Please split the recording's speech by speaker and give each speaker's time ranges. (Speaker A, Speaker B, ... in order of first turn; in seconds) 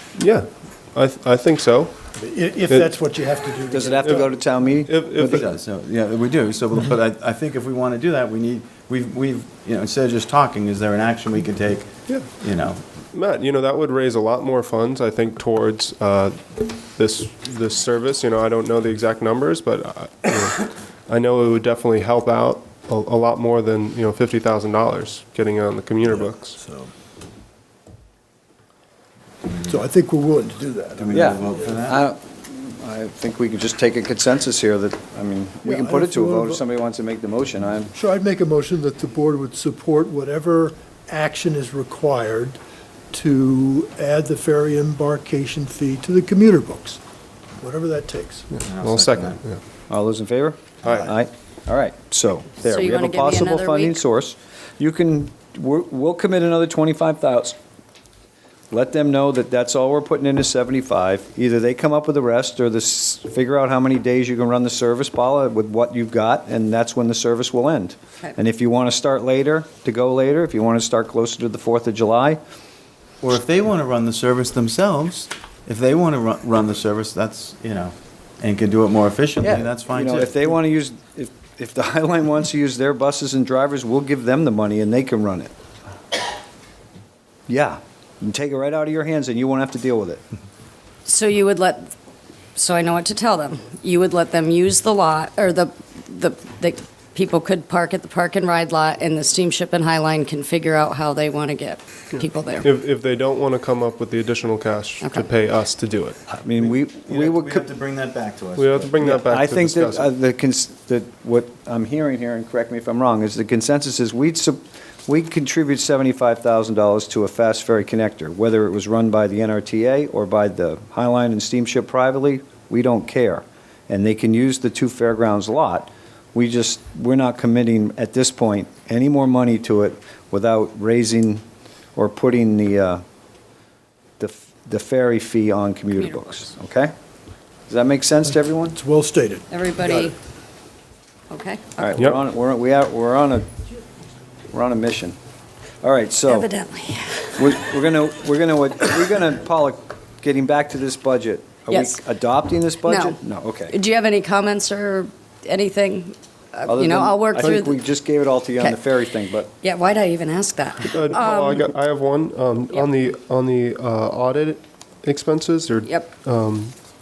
Speaker A: 0.2-2.1, 4.0-5.5, 12.1-12.3, 13.1-26.6, 48.5-49.6, 50.8-51.1, 102.6-106.2, 108.5-110.1, 160.9-166.7
Speaker B: 2.1-4.3, 26.6-26.9, 29.5-31.8, 35.6-36.6, 37.9-42.6, 43.1-47.0, 47.6-48.5, 138.7-140.1
Speaker C: 3.7-5.4, 31.1-37.9, 49.9-57.5, 58.7-72.4, 79.4-85.5, 87.5-90.2, 106.3-107.7, 109.0-131.4, 131.9-133.0, 134.2-136.9, 137.7-138.8, 141.8-143.4, 144.5-145.2, 145.8-146.5, 147.4-153.7, 156.7-159.5
Speaker D: 5.2-12.8, 30.9-32.0, 48.6-49.4, 73.2-80.6, 106.5-108.9
Speaker E: 52.6-54.0, 91.0-91.9, 92.5-102.7, 105.0-105.2, 135.9-136.3, 139.5-140.2, 141.3-141.9, 146.2-147.4, 151.7-152.0, 152.8-153.2, 153.7-157.8, 159.6-161.7, 165.8-166.1